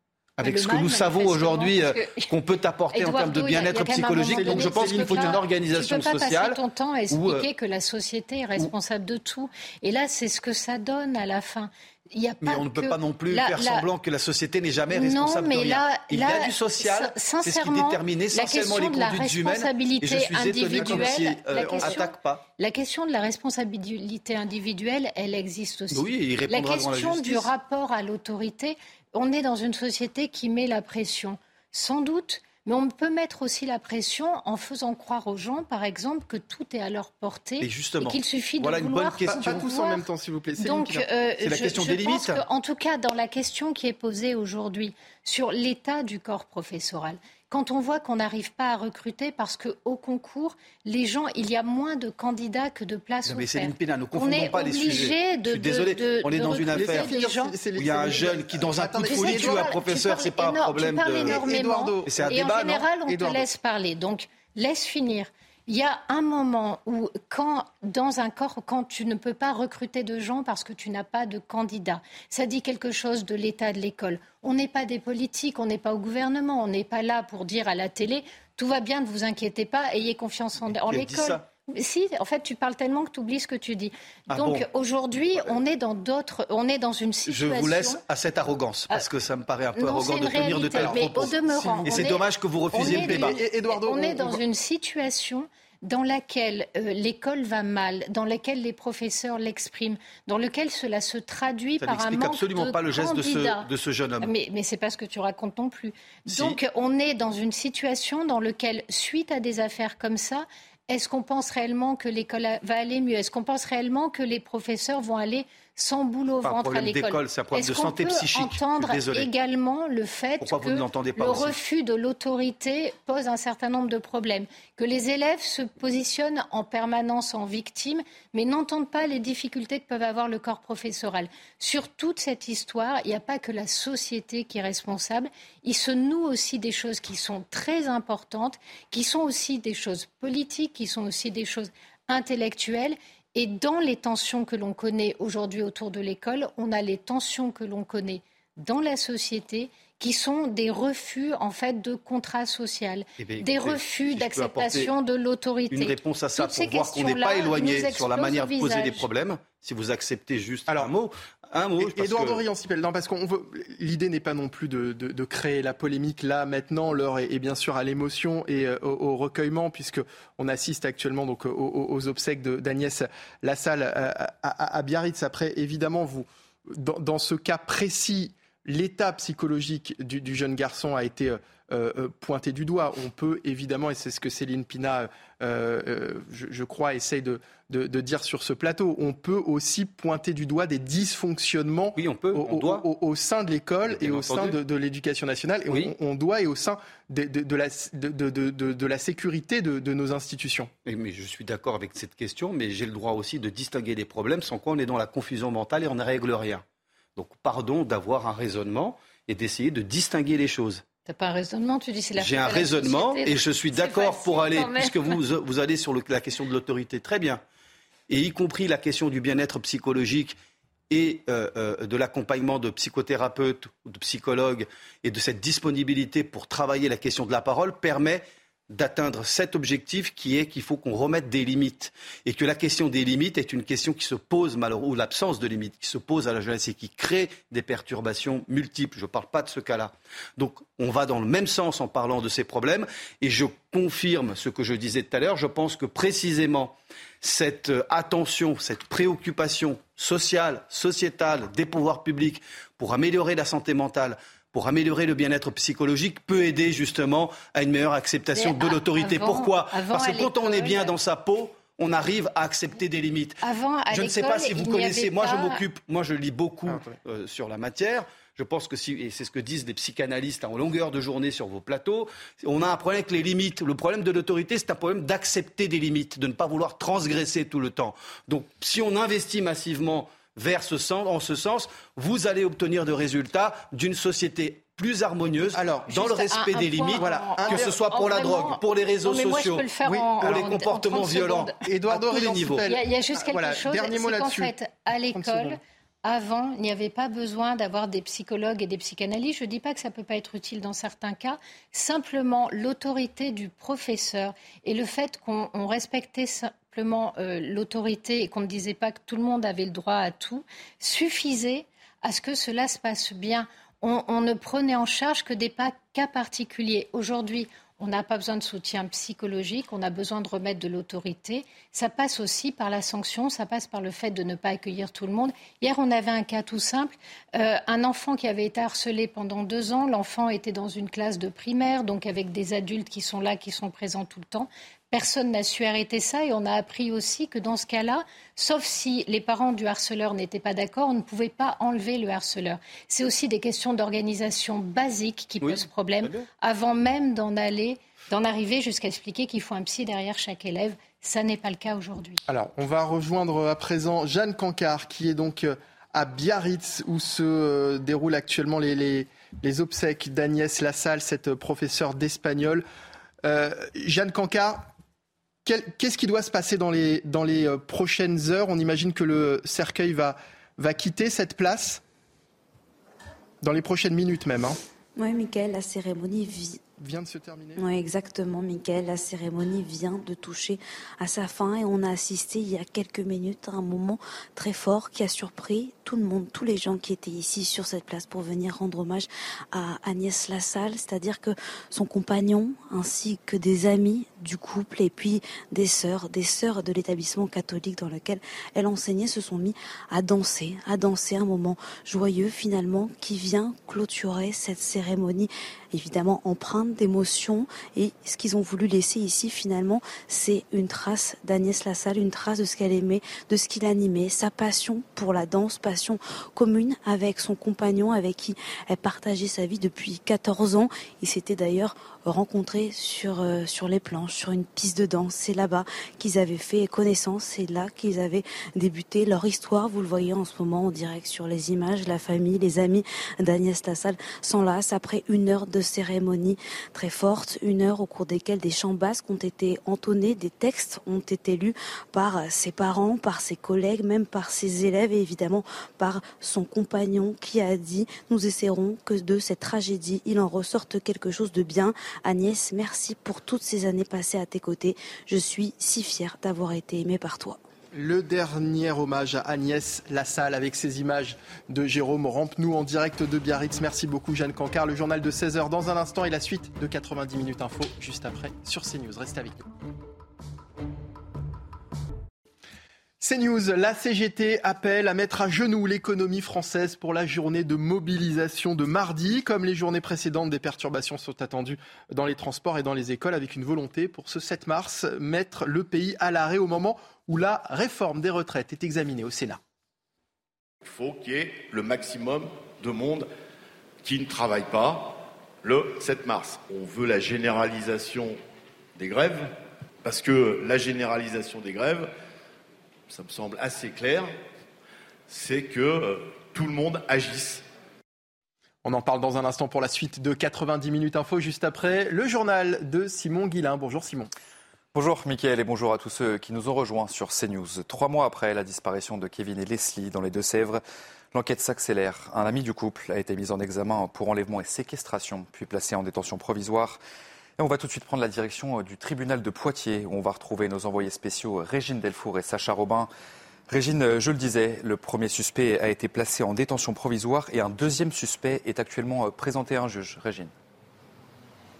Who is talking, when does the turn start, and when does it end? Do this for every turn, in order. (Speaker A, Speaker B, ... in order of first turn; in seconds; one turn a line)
Speaker A: 0.4-7.5
Speaker B: 0.4-2.3
Speaker B: 2.9-13.8
Speaker C: 4.3-5.4
Speaker A: 12.4-22.4
Speaker B: 14.9-40.0
Speaker C: 20.7-22.0
Speaker A: 25.9-27.5
Speaker A: 37.6-39.7
Speaker C: 39.2-41.0
Speaker B: 40.6-57.5
Speaker A: 41.4-42.4
Speaker A: 53.2-57.2
Speaker C: 56.7-59.7
Speaker A: 57.8-61.4
Speaker B: 59.1-88.0
Speaker C: 61.2-62.1
Speaker A: 62.0-62.9
Speaker C: 63.1-63.4
Speaker A: 80.7-81.5
Speaker A: 84.3-85.6
Speaker A: 87.3-93.4
Speaker B: 89.8-103.7
Speaker C: 90.7-92.1
Speaker C: 92.7-94.4
Speaker A: 101.8-104.3
Speaker B: 104.2-159.1
Speaker A: 106.3-106.6
Speaker A: 116.4-119.3
Speaker A: 120.4-121.6
Speaker A: 153.2-154.9
Speaker A: 155.7-162.4
Speaker C: 161.8-200.7
Speaker A: 191.9-192.8
Speaker A: 193.8-194.6
Speaker A: 195.7-195.9
Speaker A: 200.8-206.6
Speaker A: 207.2-210.8
Speaker B: 211.1-215.2
Speaker A: 212.2-217.4
Speaker A: 218.1-220.4
Speaker A: 220.9-263.4
Speaker B: 258.3-260.9
Speaker B: 263.4-265.6
Speaker A: 263.9-292.7
Speaker C: 266.7-266.9
Speaker C: 285.5-285.9
Speaker B: 285.9-291.6
Speaker C: 287.0-287.7
Speaker C: 289.9-290.3
Speaker C: 291.6-294.5
Speaker B: 292.6-352.2
Speaker C: 295.1-295.6
Speaker A: 345.4-346.3
Speaker C: 352.3-362.6
Speaker C: 363.2-364.7
Speaker C: 365.4-371.8
Speaker C: 373.4-374.6
Speaker D: 374.9-376.6
Speaker C: 376.8-377.6
Speaker D: 377.6-457.4
Speaker C: 457.7-469.4
Speaker C: 473.0-489.4
Speaker E: 490.6-493.1
Speaker E: 493.8-498.2
Speaker E: 498.8-499.3
Speaker E: 499.8-501.9
Speaker E: 502.9-504.1
Speaker E: 505.1-507.4
Speaker C: 508.6-514.1
Speaker F: 514.7-520.6
Speaker F: 521.1-526.8
Speaker F: 527.4-532.9
Speaker F: 533.5-540.3